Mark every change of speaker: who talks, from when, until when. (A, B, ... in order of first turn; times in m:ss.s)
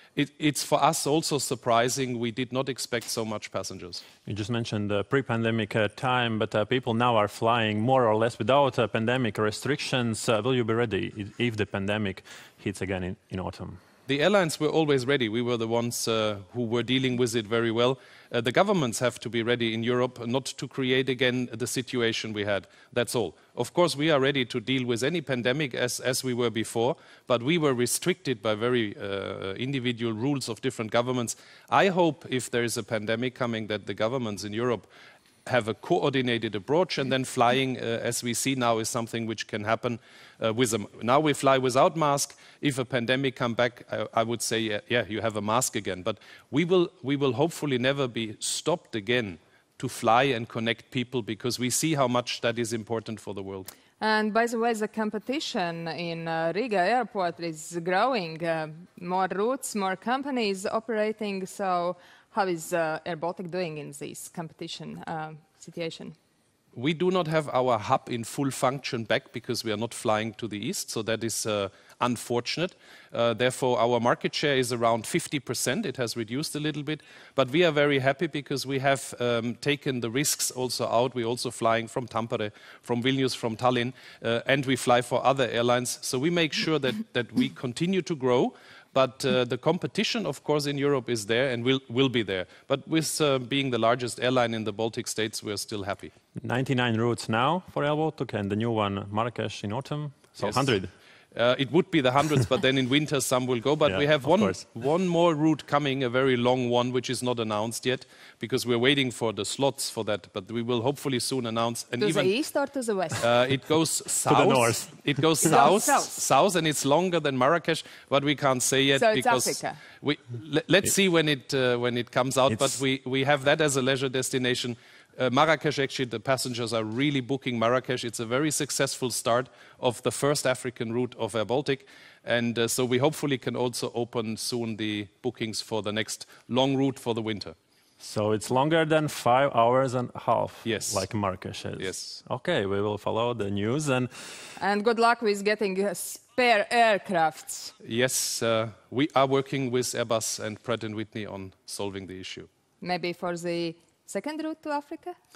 0:00.1-0:04.0 A
0:04.2-0:13.8 B
0:14.1-0:34.9 A
0:35.5-0:53.7 A
0:54.0-1:06.1 C
1:06.8-1:36.1 A
1:36.4-1:40.9 B
1:40.4-1:40.7 A
1:41.3-1:52.3 A
1:43.8-1:44.6 B
1:52.0-1:53.3 C
1:53.2-2:17.6 A
1:54.2-1:55.5 B
1:55.4-1:56.2 C
1:58.9-1:59.8 C
2:18.0-2:24.1 B
2:20.6-2:21.0 A
2:21.8-2:22.2 A
2:24.6-2:27.7 C
2:27.8-2:32.5 A
2:32.8-2:35.1 C